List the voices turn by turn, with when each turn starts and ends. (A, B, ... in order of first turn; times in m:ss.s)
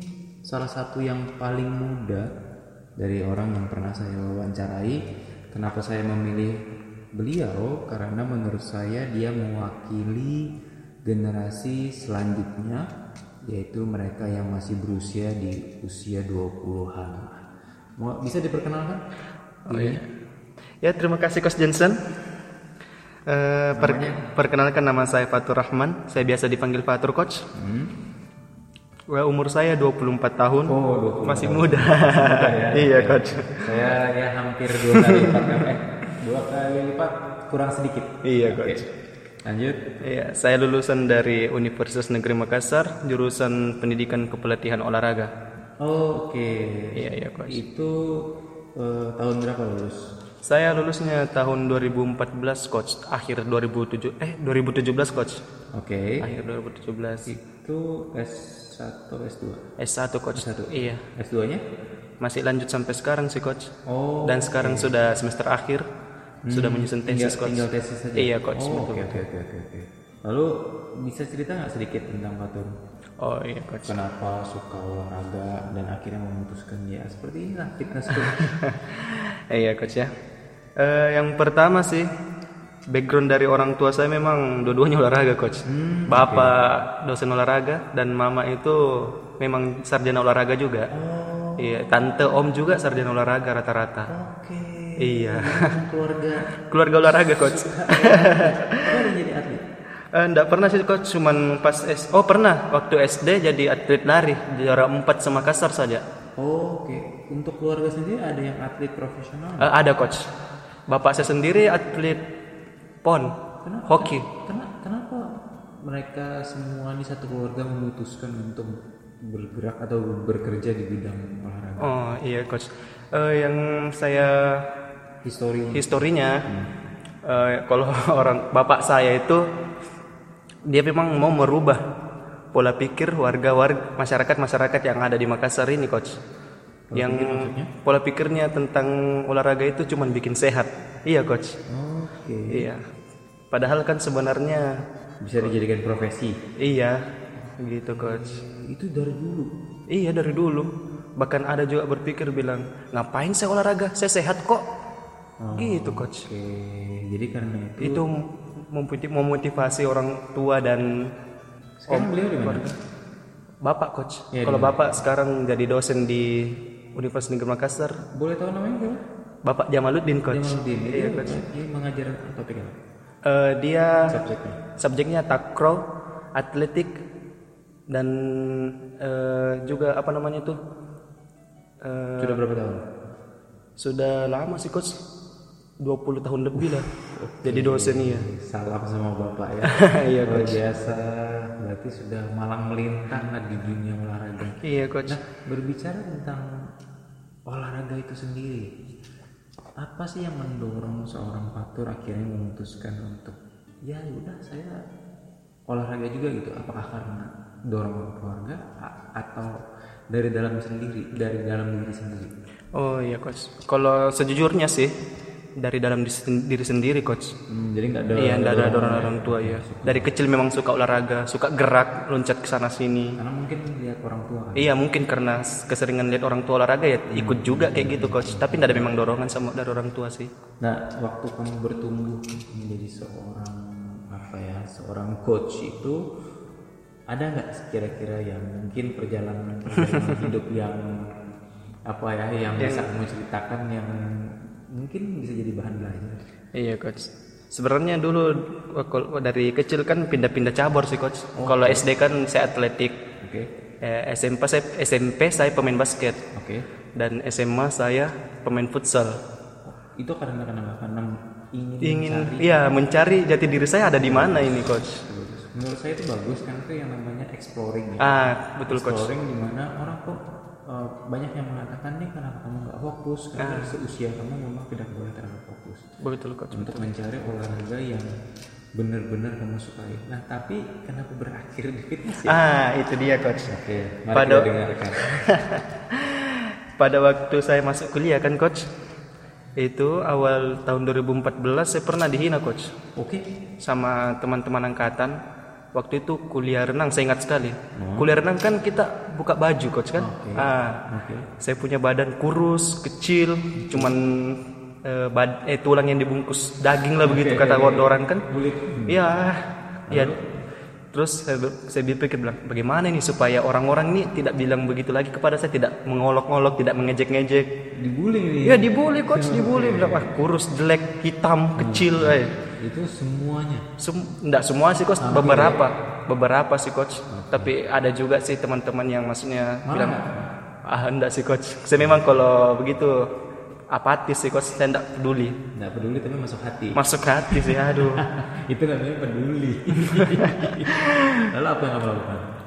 0:00.5-0:02.3 A
0:03.0-0:05.0 A
0:05.5-0:06.5 A
0:07.2-0:10.5 A
0:11.0-0:12.8 A
0:13.5-0:17.4 A
0:18.0-0:19.0 A
0:19.7-0:20.0 B
0:19.7-0:20.0 A
0:20.8-0:22.0 B
0:23.3-0:27.4 B
0:23.8-0:24.2 A
0:27.5-0:27.9 A
0:29.1-0:33.7 B
0:30.7-0:38.8 A
0:34.7-0:35.6 B
0:38.2-0:38.9 B
0:39.4-0:39.8 A
0:40.0-0:45.3 B
0:45.8-0:50.1 A
0:46.9-0:47.6 B
0:50.4-0:55.4 B
0:55.7-0:56.2 A
0:56.2-0:57.3 B
0:57.2-0:59.6 A
0:59.8-1:01.0 B
1:00.3-1:01.6 A
1:02.2-1:03.7 B
1:03.9-1:04.9 A
1:04.2-1:05.8 B
1:06.4-1:10.5 A
1:06.5-1:09.2 B
1:11.0-1:12.7 A
1:13.2-1:13.9 B
1:13.8-1:18.5 A
1:18.1-1:20.1 B
1:20.8-1:22.0 B
1:22.9-1:28.8 B
1:25.6-1:26.6 A
1:29.4-1:30.9 B
1:30.9-1:32.2 A
1:31.6-1:34.1 B
1:34.1-1:36.5 A
1:35.0-1:35.7 B
1:36.7-1:39.1 B
1:37.0-1:39.6 A
1:40.1-1:46.0 B
1:46.4-1:49.7 A
1:49.6-1:50.2 B
1:50.9-1:52.2 B
1:53.0-1:53.3 B
1:53.6-1:55.2 A
1:53.9-1:54.2 B
1:55.8-1:58.7 A
1:59.3-2:01.9 A
2:01.8-2:04.5 B
2:05.2-2:05.9 A
2:05.7-2:06.4 B
2:06.4-2:06.7 A
2:07.3-2:09.4 B
2:10.7-2:11.8 B
2:12.5-2:16.2 B
2:16.9-2:17.7 A
2:16.9-2:21.5 B
2:21.7-2:22.7 A
2:22.5-2:22.8 B
2:23.5-2:24.7 B
2:25.2-2:26.4 A
2:26.6-2:27.0 B
2:27.6-2:28.4 B
2:27.9-2:29.5 A
2:29.9-2:30.7 B
2:31.2-2:34.6 B
2:35.4-2:38.0 A
2:35.5-2:36.2 B
2:37.8-2:38.1 B
2:38.7-2:40.9 B
2:41.8-2:42.7 A
2:41.9-2:42.7 B
2:43.6-2:48.0 B
2:44.3-2:45.0 A
2:48.1-2:49.0 A
2:49.4-2:51.4 B
2:50.3-2:52.8 A
2:53.2-2:54.1 B
2:54.1-2:54.6 A
2:54.8-2:55.8 B
2:56.4-2:57.0 B
2:57.9-3:00.6 B
3:01.8-3:02.4 B
3:02.2-3:02.8 A
3:03.8-3:04.9 B
3:05.8-3:06.9 B
3:06.6-3:16.4 A
3:07.4-3:08.2 B
3:09.6-3:10.6 B
3:14.6-3:15.2 B
3:17.5-3:18.7 A
3:19.8-3:24.8 A
3:25.7-3:29.5 A
3:30.1-3:32.3 A
3:32.8-3:34.9 B
3:35.6-3:37.3 B
3:37.5-3:40.1 A
3:38.2-3:43.2 B
3:43.2-3:44.7 A
3:44.6-3:50.3 B
3:47.1-3:49.1 A
3:50.6-3:56.0 A
3:57.1-4:00.8 A
3:59.8-4:00.2 B
4:01.9-4:04.0 A
4:02.6-4:02.9 B
4:04.8-4:06.2 A
4:06.5-4:13.0 B
4:11.4-4:11.9 A
4:13.2-4:13.5 A
4:13.8-4:16.2 B
4:16.3-4:16.6 A
4:17.0-4:19.1 B
4:19.6-4:22.6 A
4:21.8-4:25.0 B
4:23.9-4:30.2 A
4:28.0-4:29.1 B
4:30.7-4:35.8 A
4:33.4-4:33.7 B
4:36.0-4:36.8 B
4:36.5-4:38.1 A
4:38.8-4:42.4 A
4:42.2-4:43.5 B
4:43.5-4:45.0 A
4:44.1-4:48.6 B
4:49.6-4:52.7 B
4:53.6-4:55.2 B
4:55.7-5:00.8 B
4:57.8-4:58.1 A
5:00.0-5:01.3 A
5:01.4-5:08.2 B
5:03.6-5:03.9 A
5:07.0-5:09.0 A
5:08.9-5:10.1 B
5:09.9-5:10.2 A
5:10.9-5:17.5 B
5:17.8-5:20.1 A
5:18.4-5:22.3 B
5:21.6-5:23.6 A
5:23.8-5:30.0 B
5:25.0-5:25.6 A
5:27.1-5:27.5 A
5:29.7-5:30.3 A
5:30.7-5:33.0 B
5:31.8-5:32.0 A
5:33.7-5:35.4 B
5:35.5-5:42.3 A
5:36.7-5:38.0 B
5:39.7-5:41.2 B